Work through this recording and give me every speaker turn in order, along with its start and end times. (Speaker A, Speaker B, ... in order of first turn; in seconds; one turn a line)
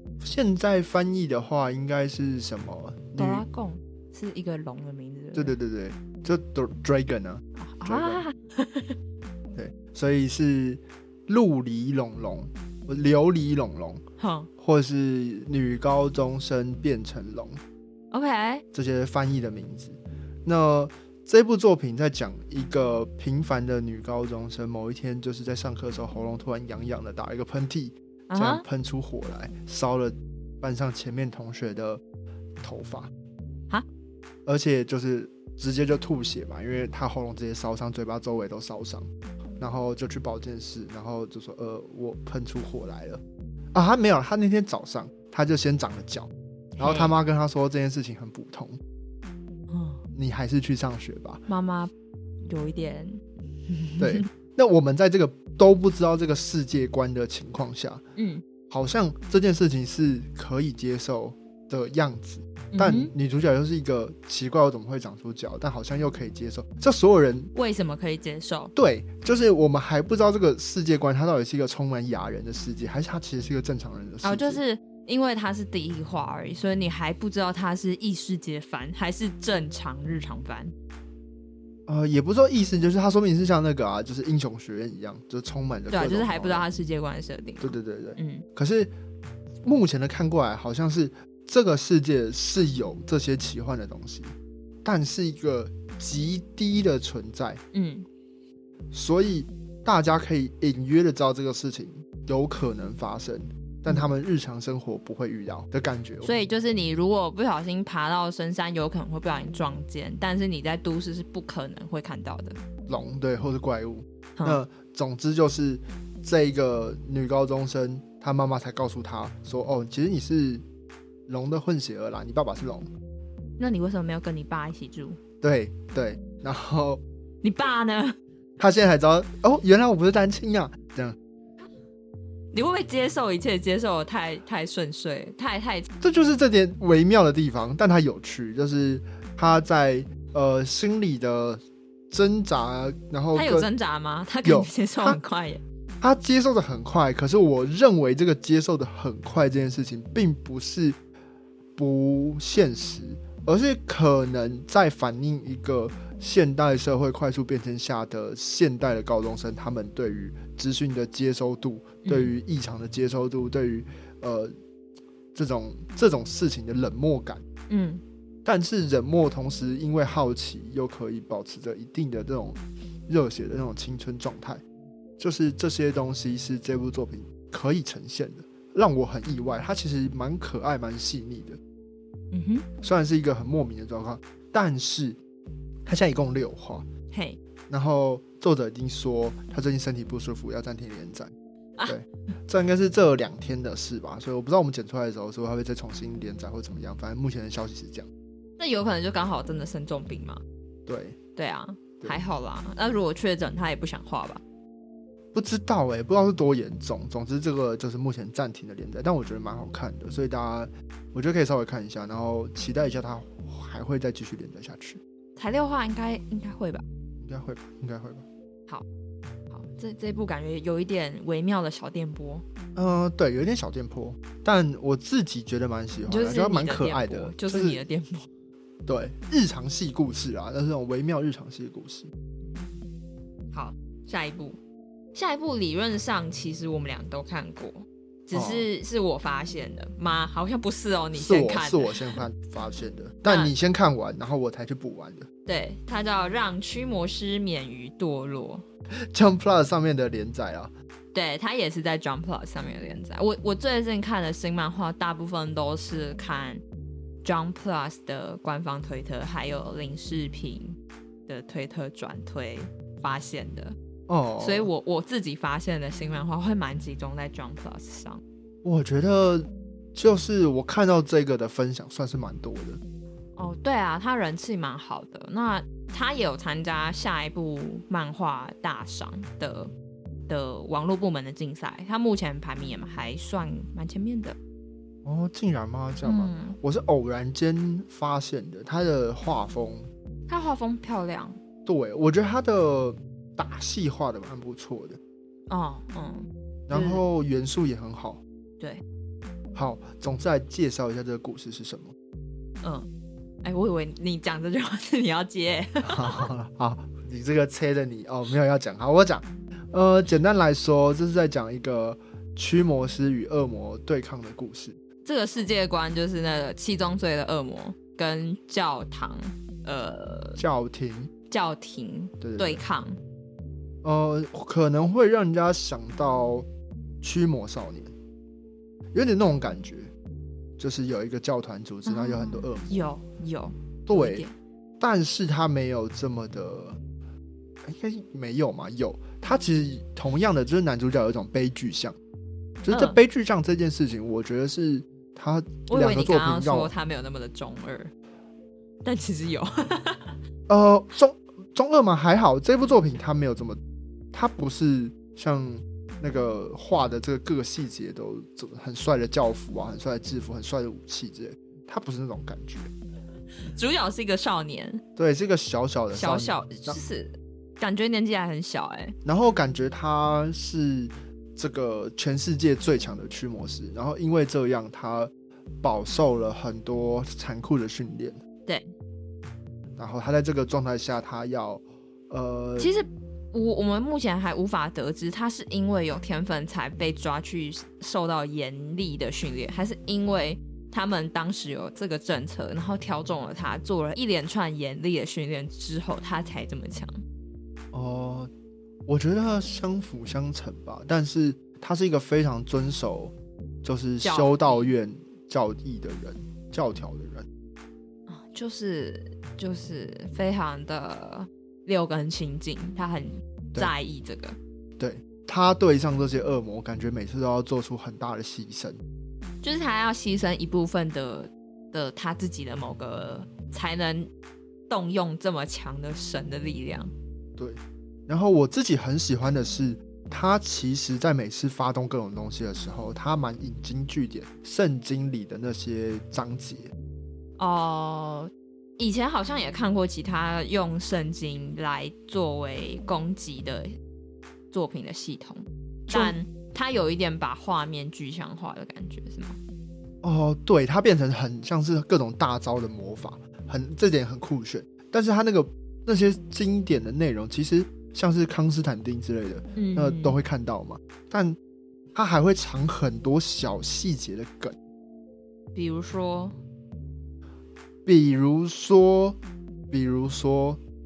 Speaker A: 0.2-3.4
Speaker B: 3.2-5.5
Speaker A: 5.3-8.2
Speaker B: 7.6-9.0
Speaker A: 9.5-14.0
Speaker B: 14.2-14.5
Speaker A: 14.6-17.6
Speaker B: 18.1-18.6
Speaker A: 18.7-32.0
Speaker B: 28.3-28.6
Speaker A: 32.6-33.1
Speaker A: 34.5-43.2
Speaker A: 43.7-48.8
Speaker B: 46.8-47.1
Speaker B: 49.7-50.0
Speaker A: 50.1-51.4
Speaker B: 51.5-51.9
Speaker B: 52.5-54.2
Speaker A: 54.0-58.0
Speaker B: 58.1-58.4
Speaker A: 58.7-67.5
Speaker B: 62.7-63.1
Speaker B: 67.5-68.7
Speaker A: 68.8-74.6
Speaker B: 74.2-80.7
Speaker A: 81.9-86.7
Speaker B: 85.9-88.5
Speaker A: 87.6-88.9
Speaker A: 89.6-97.6
Speaker B: 97.7-98.1
Speaker A: 98.9-106.3
Speaker B: 106.2-112.6
Speaker A: 112.9-120.6
Speaker A: 121.3-122.9
Speaker B: 123.6-125.2
Speaker A: 125.4-127.0
Speaker B: 127.4-128.2
Speaker A: 128.6-131.2
Speaker B: 132.5-135.9
Speaker A: 136.0-143.7
Speaker B: 143.3-145.6
Speaker A: 144.4-145.2
Speaker A: 146.0-151.0
Speaker A: 151.8-164.5
Speaker B: 162.0-162.3
Speaker A: 165.3-167.4
Speaker B: 167.7-168.0
Speaker A: 168.4-174.6
Speaker A: 175.2-181.6
Speaker B: 182.3-182.7
Speaker A: 182.8-185.2
Speaker A: 185.8-186.8
Speaker B: 187.1-187.4
Speaker A: 187.7-191.3
Speaker A: 191.8-198.1
Speaker B: 198.6-200.4
Speaker A: 200.9-201.2
Speaker B: 201.3-204.4
Speaker A: 205.3-215.0
Speaker B: 215.3-216.8
Speaker A: 217.2-218.2
Speaker B: 219.5-222.4
Speaker A: 222.8-227.8
Speaker B: 226.1-228.3
Speaker A: 228.8-232.1
Speaker B: 233.5-234.6
Speaker B: 235.1-242.2
Speaker A: 238.3-238.7
Speaker A: 241.1-245.3
Speaker B: 243.2-243.5
Speaker B: 245.4-248.6
Speaker A: 249.1-250.7
Speaker B: 251.1-256.6
Speaker B: 257.2-263.8
Speaker A: 264.1-264.7
Speaker B: 264.4-268.2
Speaker A: 268.6-272.8
Speaker B: 273.4-279.7
Speaker B: 280.3-284.4
Speaker A: 285.0-289.9
Speaker B: 286.0-286.6
Speaker B: 290.3-291.4
Speaker A: 291.6-295.0
Speaker B: 295.5-297.0
Speaker A: 296.7-298.2
Speaker A: 299.5-301.9
Speaker B: 302.6-302.9
Speaker B: 303.4-306.3
Speaker A: 305.8-314.8
Speaker B: 315.0-320.4
Speaker A: 320.4-321.1
Speaker B: 321.3-323.0
Speaker A: 322.2-322.6
Speaker A: 323.8-326.5
Speaker A: 327.0-327.9
Speaker A: 328.9-329.9
Speaker A: 330.6-332.8
Speaker B: 331.9-334.3
Speaker A: 333.9-334.2
Speaker A: 334.8-336.8
Speaker A: 337.6-341.9
Speaker A: 342.6-346.7
Speaker B: 342.7-343.0
Speaker B: 345.7-347.9
Speaker B: 348.8-350.2
Speaker A: 350.5-353.6
Speaker A: 354.1-362.7
Speaker B: 363.4-364.8
Speaker A: 364.9-366.8
Speaker B: 365.9-368.9
Speaker A: 369.0-378.2
Speaker A: 379.8-382.7
Speaker B: 382.6-397.0
Speaker A: 397.7-398.3
Speaker A: 398.9-407.3
Speaker B: 404.0-404.7
Speaker B: 408.1-414.4
Speaker A: 414.8-418.8
Speaker B: 419.4-424.1
Speaker B: 424.7-426.9
Speaker A: 427.4-436.7
Speaker B: 437.4-443.8
Speaker B: 444.5-449.4
Speaker A: 445.9-446.2
Speaker A: 450.0-461.4
Speaker B: 459.6-460.2
Speaker A: 461.9-464.6
Speaker B: 465.5-466.4
Speaker A: 467.9-469.2
Speaker A: 469.7-470.6